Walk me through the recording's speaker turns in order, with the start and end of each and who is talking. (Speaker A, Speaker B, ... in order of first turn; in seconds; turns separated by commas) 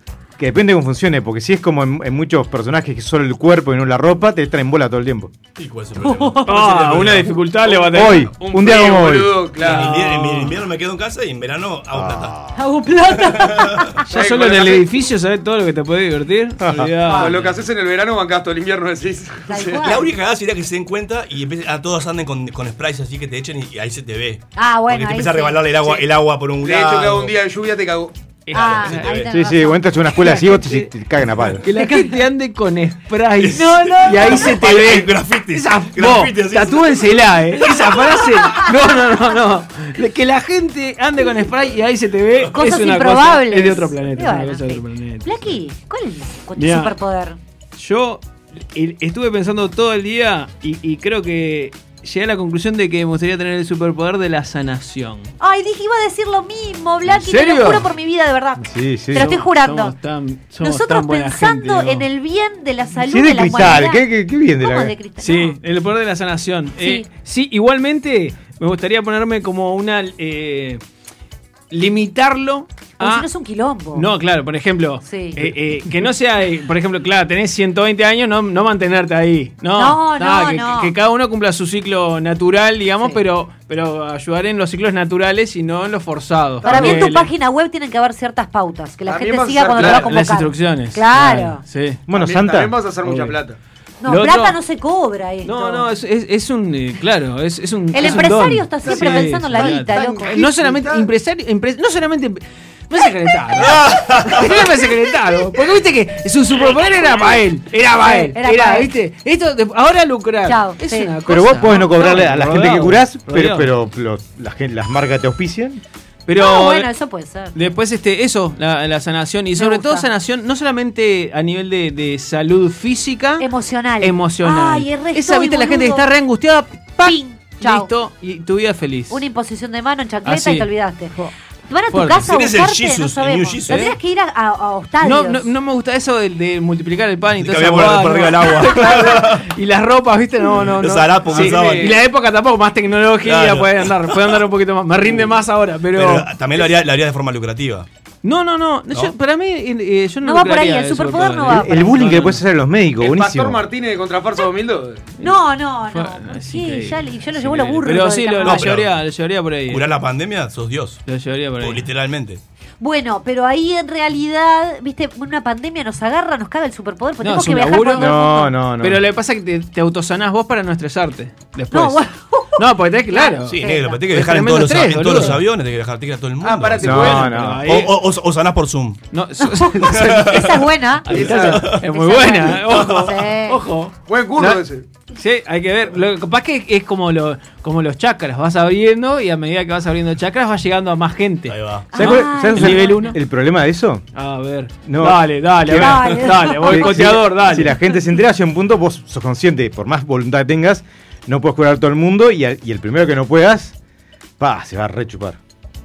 Speaker A: 0.4-5.3, Speaker B: 5.6-7.7, Speaker C: 6.4-8.3, Speaker A: 7.8-9.5, Speaker D: 8.4-10.1, Speaker B: 9.6-12.4, Speaker C: 9.6-10.6, Speaker A: 11.9-12.5, Speaker E: 12.6-14.0, Speaker B: 13.1-14.0, Speaker D: 14.1-14.9, Speaker C: 14.1-17.5, Speaker A: 16.6-16.9, Speaker E: 17.1-17.3, Speaker D: 17.1-19.9, Speaker E: 19.5-20.1, Speaker B: 19.8-27.3, Speaker E: 24.6-26.0, Speaker D: 26.6-28.1, Speaker C: 28.5-29.3, Speaker E: 28.5-29.9, Speaker B: 28.6-29.2, Speaker A: 29.3-31.6, Speaker C: 30.2-30.9, Speaker C: 31.6-45.5, Speaker E: 31.7-32.2, Speaker B: 33.4-38.1, Speaker E: 42.5-47.4, Speaker C: 46.6-46.9, Speaker C: 47.8-55.3, Speaker E: 55.4-60.0, Speaker C: 57.1-57.9, Speaker A: 58.6-59.4, Speaker C: 59.1-62.1, Speaker E: 60.6-64.1, Speaker A: 63.0-64.9, Speaker E: 64.6-65.6, Speaker C: 65.2-70.8, Speaker E: 66.8-67.1, Speaker C: 71.7-73.3, Speaker E: 73.0-74.1, Speaker C: 73.9-87.3, Speaker E: 75.0-75.5, Speaker E: 79.8-80.9, Speaker D: 86.6-87.1, Speaker E: 86.6-91.6, Speaker D: 89.1-90.2, Speaker C: 89.8-92.0, Speaker A: 92.1-92.8, Speaker D: 92.1-93.6, Speaker C: 93.0-93.4, Speaker E: 94.0-95.9, Speaker C: 94.0-94.6, Speaker C: 95.4-113.8, Speaker E: 97.9-100.5, Speaker D: 98.9-101.1, Speaker B: 103.6-104.6, Speaker E: 106.6-107.4, Speaker E: 108.0-108.9, Speaker E: 110.5-111.1, Speaker A: 111.3-115.8, Speaker C: 116.3-116.9, Speaker E: 116.4-117.6, Speaker C: 117.5-123.5, Speaker E: 119.6-120.1, Speaker E: 123.4-126.1, Speaker C: 124.0-129.2, Speaker E: 127.0-127.9, Speaker E: 129.1-131.2, Speaker C: 130.2-131.3, Speaker E: 131.7-135.5, Speaker C: 131.9-132.3, Speaker B: 132.2-133.9, Speaker C: 133.7-133.9, Speaker C: 135.0-146.3, Speaker B: 137.3-139.5, Speaker B: 140.6-142.0, Speaker D: 141.3-142.0, Speaker B: 143.2-144.4, Speaker B: 145.9-147.9, Speaker C: 148.2-152.4, Speaker E: 150.2-152.2, Speaker A: 151.5-153.6, Speaker D: 153.0-155.1, Speaker C: 155.2-159.8, Speaker E: 155.2-158.7, Speaker B: 158.4-159.0, Speaker B: 159.7-161.0, Speaker C: 161.1-161.9, Speaker B: 161.6-162.4, Speaker E: 162.8-168.5, Speaker C: 167.2-168.3, Speaker A: 168.0-169.0, Speaker C: 168.8-172.1, Speaker E: 171.7-174.0, Speaker C: 172.6-175.4, Speaker B: 173.5-179.0, Speaker C: 176.5-178.0, Speaker D: 176.7-177.2, Speaker A: 176.8-177.7, Speaker C: 179.1-180.5, Speaker E: 179.4-183.6, Speaker B: 179.8-181.8, Speaker C: 181.1-184.6, Speaker D: 181.1-181.6, Speaker B: 182.6-183.0, Speaker D: 184.1-184.8, Speaker C: 185.2-193.2, Speaker B: 191.5-191.9, Speaker E: 191.9-193.2, Speaker A: 192.0-194.0, Speaker C: 194.1-197.8, Speaker A: 194.8-203.8, Speaker E: 195.8-197.3, Speaker A: 204.4-205.4